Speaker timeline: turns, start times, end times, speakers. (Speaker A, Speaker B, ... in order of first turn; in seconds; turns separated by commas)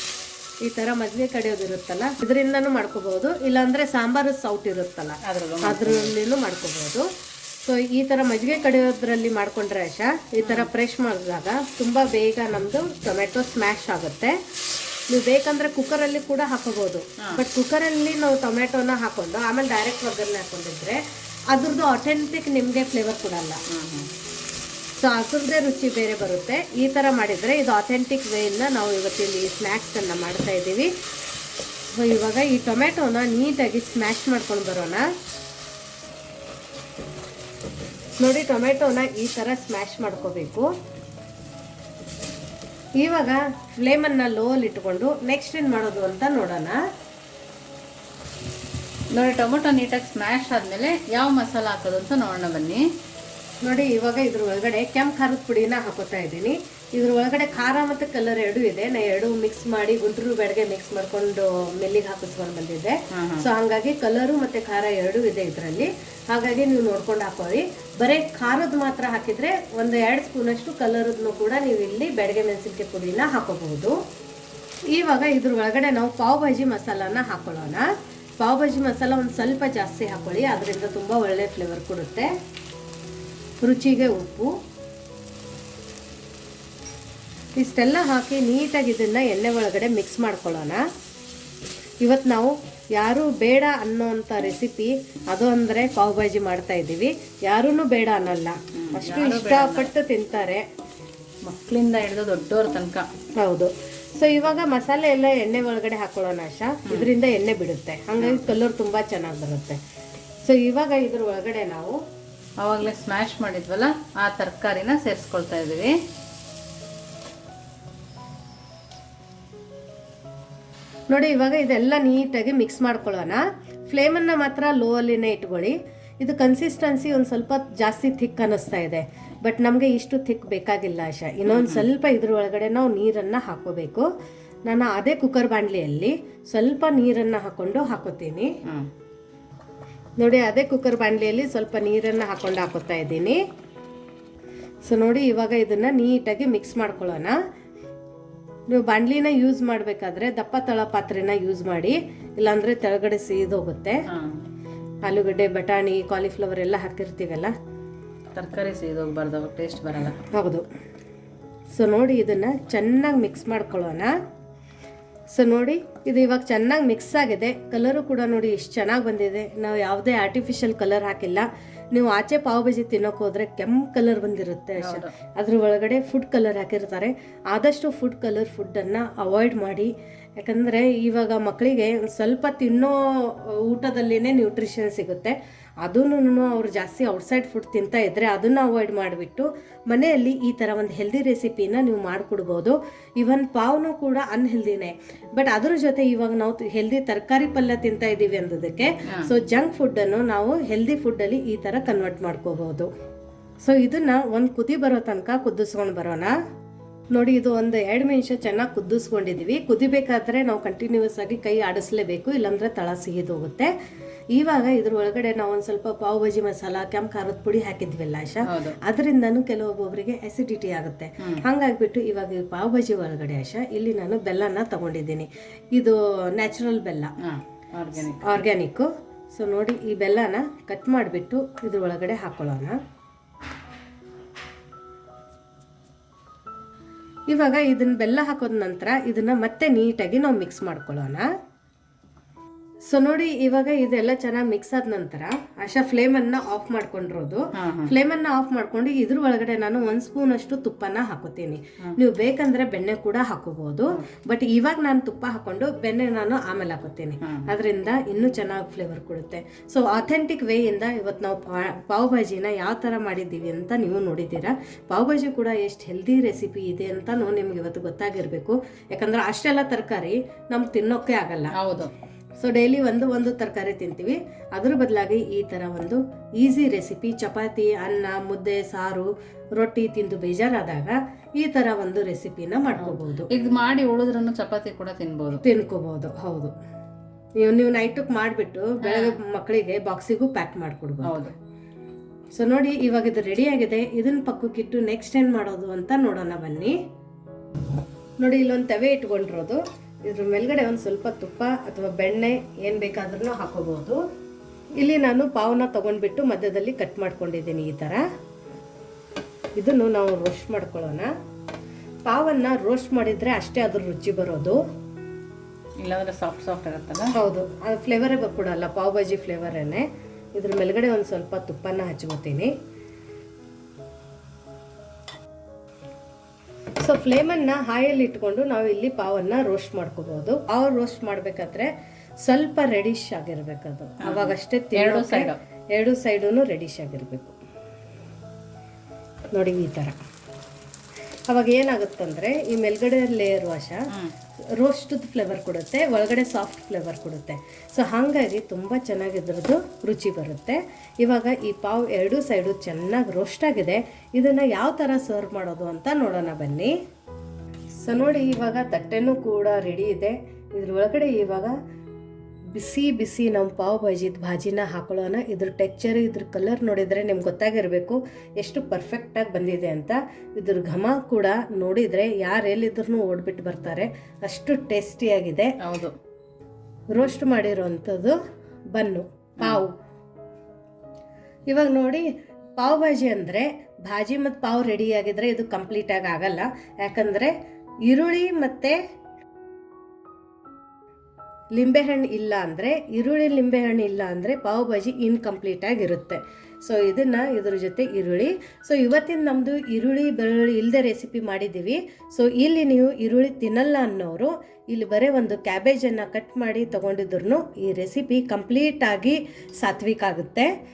Speaker A: 0.6-7.1, Speaker B: 5.2-6.1, Speaker A: 7.6-14.4, Speaker B: 10.4-10.7, Speaker A: 15.1-23.6, Speaker B: 23.7-24.1, Speaker A: 24.9-30.9, Speaker A: 31.9-35.1, Speaker A: 38.2-40.7, Speaker A: 43.0-46.8, Speaker B: 49.1-52.8, Speaker A: 53.6-74.0, Speaker B: 63.1-63.5, Speaker A: 74.9-77.9, Speaker A: 78.4-82.3, Speaker A: 83.6-84.5, Speaker A: 87.5-90.8, Speaker A: 92.0-100.6, Speaker B: 98.8-99.9, Speaker B: 101.4-103.1, Speaker A: 103.4-109.8, Speaker B: 108.2-108.5, Speaker A: 110.4-112.0, Speaker B: 112.6-115.9, Speaker A: 121.1-134.1, Speaker B: 131.5-131.8, Speaker A: 134.7-138.5, Speaker A: 140.2-143.4, Speaker A: 144.8-147.3, Speaker A: 148.7-154.0, Speaker B: 154.1-154.4, Speaker A: 155.0-157.5, Speaker B: 158.3-160.2, Speaker A: 160.3-160.6, Speaker A: 161.7-164.1, Speaker A: 165.3-202.9, Speaker B: 174.8-175.1, Speaker A: 203.6-206.3, Speaker A: 207.1-213.7, Speaker A: 214.3-227.1, Speaker B: 218.5-218.8, Speaker B: 227.2-228.2, Speaker A: 228.0-232.8, Speaker A: 237.3-241.2, Speaker A: 242.8-271.5, Speaker B: 247.5-247.9, Speaker B: 257.2-257.5, Speaker B: 271.6-271.9, Speaker A: 272.4-283.3, Speaker B: 282.8-285.4, Speaker A: 285.4-286.5, Speaker A: 287.4-291.2, Speaker B: 288.8-289.2, Speaker B: 291.0-291.3, Speaker A: 292.3-296.8, Speaker A: 298.2-304.0, Speaker A: 304.8-308.0, Speaker A: 309.6-311.1, Speaker A: 312.0-314.6, Speaker B: 315.8-317.1, Speaker A: 317.1-322.5, Speaker A: 326.8-331.7, Speaker A: 332.2-337.3, Speaker B: 334.0-335.4, Speaker A: 339.3-340.0, Speaker A: 341.3-343.8, Speaker A: 344.6-356.7, Speaker A: 357.8-361.5, Speaker A: 362.5-375.5, Speaker B: 375.6-375.9, Speaker A: 376.9-378.2, Speaker A: 378.7-379.7, Speaker A: 381.5-382.1, Speaker A: 382.6-387.3, Speaker A: 387.9-388.8, Speaker A: 391.5-410.5